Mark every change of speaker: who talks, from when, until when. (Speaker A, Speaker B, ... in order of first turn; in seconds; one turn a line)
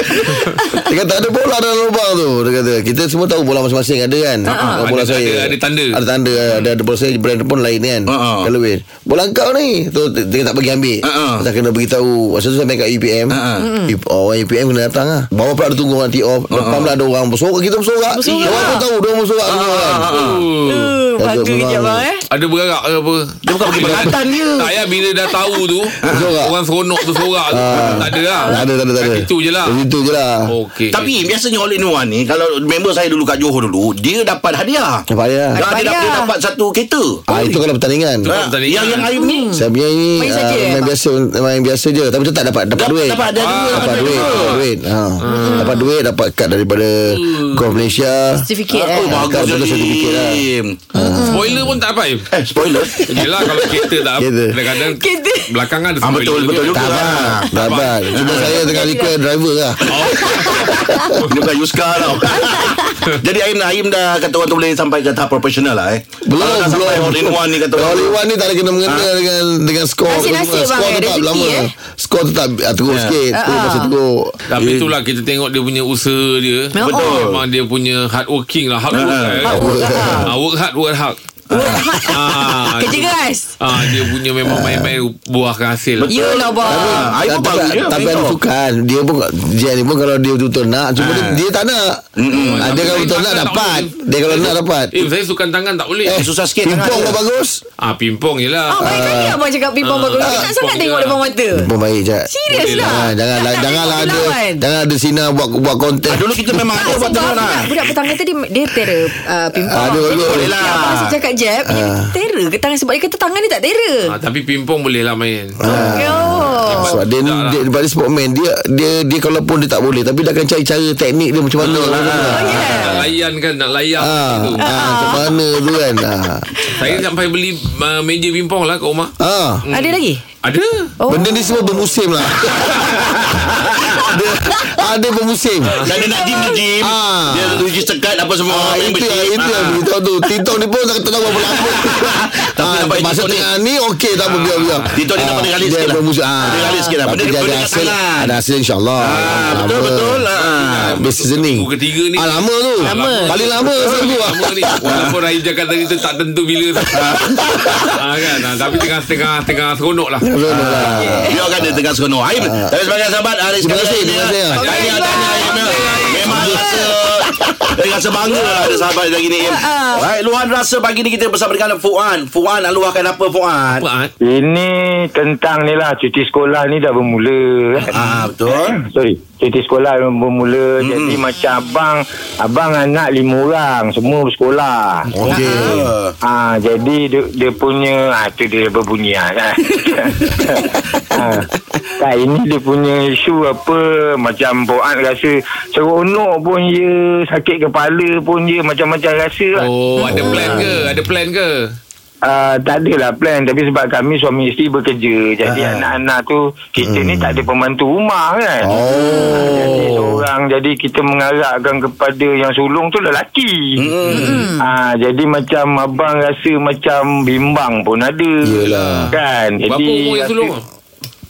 Speaker A: 0.8-20.1
Speaker B: 4.5-6.0
Speaker C: 4.5-4.8
Speaker D: 8.1-8.5
Speaker D: 11.0-11.5
Speaker D: 13.3-13.7
Speaker C: 13.6-13.9
Speaker D: 16.5-16.9
Speaker C: 18.1-18.9
Speaker D: 19.4-20.5
Speaker B: 20.1-21.0
Speaker C: 20.6-22.2
Speaker A: 21.2-22.0
Speaker B: 22.3-29.8
Speaker D: 23.4-24.7
Speaker C: 25.3-25.6
Speaker D: 26.0-26.3
Speaker A: 26.0-26.6
Speaker A: 27.5-30.5
Speaker C: 28.2-28.7
Speaker B: 30.5-31.1
Speaker D: 30.9-35.0
Speaker A: 35.1-35.6
Speaker C: 35.5-36.3
Speaker D: 35.6-37.2
Speaker A: 37.3-38.3
Speaker B: 37.3-37.6
Speaker B: 38.2-39.1
Speaker D: 38.3-39.5
Speaker C: 39.1-39.6
Speaker A: 39.5-51.7
Speaker C: 40.2-40.9
Speaker D: 42.7-44.6
Speaker B: 43.4-44.7
Speaker C: 45.2-45.9
Speaker B: 45.2-45.8
Speaker B: 47.1-47.6
Speaker C: 48.5-49.5
Speaker D: 48.8-50.8
Speaker C: 50.9-51.7
Speaker B: 51.2-52.3
Speaker D: 52.3-53.3
Speaker C: 53.0-53.9
Speaker B: 53.0-58.0
Speaker A: 54.2-54.6
Speaker C: 54.7-55.6
Speaker D: 56.0-58.5
Speaker A: 56.8-60.2
Speaker C: 58.2-59.2
Speaker B: 59.9-60.8
Speaker C: 60.1-61.2
Speaker D: 61.2-68.2
Speaker C: 62.0-63.1
Speaker A: 66.2-74.4
Speaker C: 70.1-71.7
Speaker D: 72.9-73.2
Speaker C: 73.3-73.9
Speaker B: 74.5-81.2
Speaker D: 74.6-74.9
Speaker C: 76.7-77.3
Speaker D: 76.8-77.4
Speaker D: 78.9-79.5
Speaker C: 79.4-80.3
Speaker A: 79.5-80.2
Speaker D: 81.5-82.0
Speaker C: 81.5-83.5
Speaker B: 82.1-86.3
Speaker A: 84.5-84.9
Speaker C: 86.1-87.1
Speaker D: 86.1-88.4
Speaker A: 86.6-95.1
Speaker D: 91.0-91.4
Speaker D: 92.2-93.1
Speaker B: 92.3-96.2
Speaker A: 96.1-97.6
Speaker D: 96.1-97.2
Speaker B: 97.8-101.3
Speaker C: 98.7-101.7
Speaker A: 98.8-99.4
Speaker A: 101.5-106.3
Speaker C: 102.3-104.6
Speaker B: 102.5-103.1
Speaker D: 106.1-107.9
Speaker C: 106.7-114.2
Speaker A: 109.7-110.5
Speaker D: 110.0-111.1
Speaker A: 111.7-112.1
Speaker B: 114.1-116.0
Speaker A: 115.6-122.8
Speaker C: 115.7-117.0
Speaker B: 116.7-117.6
Speaker D: 121.6-122.7
Speaker B: 121.6-124.6
Speaker C: 122.3-123.1
Speaker A: 124.0-127.0
Speaker C: 124.6-125.4
Speaker B: 126.8-131.1
Speaker A: 129.2-129.6
Speaker C: 129.7-130.2
Speaker C: 131.0-131.8
Speaker A: 131.1-133.4
Speaker D: 132.7-134.0
Speaker A: 134.0-135.9
Speaker B: 135.7-135.9
Speaker D: 135.8-139.8
Speaker C: 136.0-136.6
Speaker A: 136.8-137.7
Speaker A: 138.5-150.3
Speaker D: 141.5-143.5
Speaker B: 144.2-145.0
Speaker D: 144.9-148.4
Speaker C: 146.4-147.0
Speaker D: 149.0-151.0
Speaker B: 149.5-149.8
Speaker B: 150.3-157.2
Speaker A: 150.9-154.7
Speaker C: 152.8-153.3
Speaker D: 154.8-155.2
Speaker D: 156.9-157.9
Speaker B: 157.9-160.3
Speaker A: 160.2-162.8
Speaker D: 160.5-173.9
Speaker C: 160.8-161.5
Speaker A: 163.6-164.7
Speaker C: 164.5-166.9
Speaker B: 164.6-166.6
Speaker C: 168.2-170.1
Speaker B: 173.8-174.1
Speaker E: 174.2-185.6
Speaker D: 177.9-178.8
Speaker D: 180.8-181.2
Speaker A: 185.2-185.9
Speaker D: 185.2-186.2
Speaker E: 186.2-199.7
Speaker B: 199.6-201.7
Speaker C: 200.0-200.7
Speaker A: 200.1-200.9
Speaker E: 202.2-213.8
Speaker D: 205.4-205.9
Speaker A: 206.8-207.4
Speaker A: 208.6-209.7
Speaker C: 208.9-209.7
Speaker B: 209.7-210.1
Speaker D: 213.8-214.4
Speaker B: 214.1-214.4
Speaker C: 214.1-214.7
Speaker E: 214.6-218.6
Speaker A: 218.4-219.1
Speaker B: 218.6-220.7
Speaker E: 219.1-220.6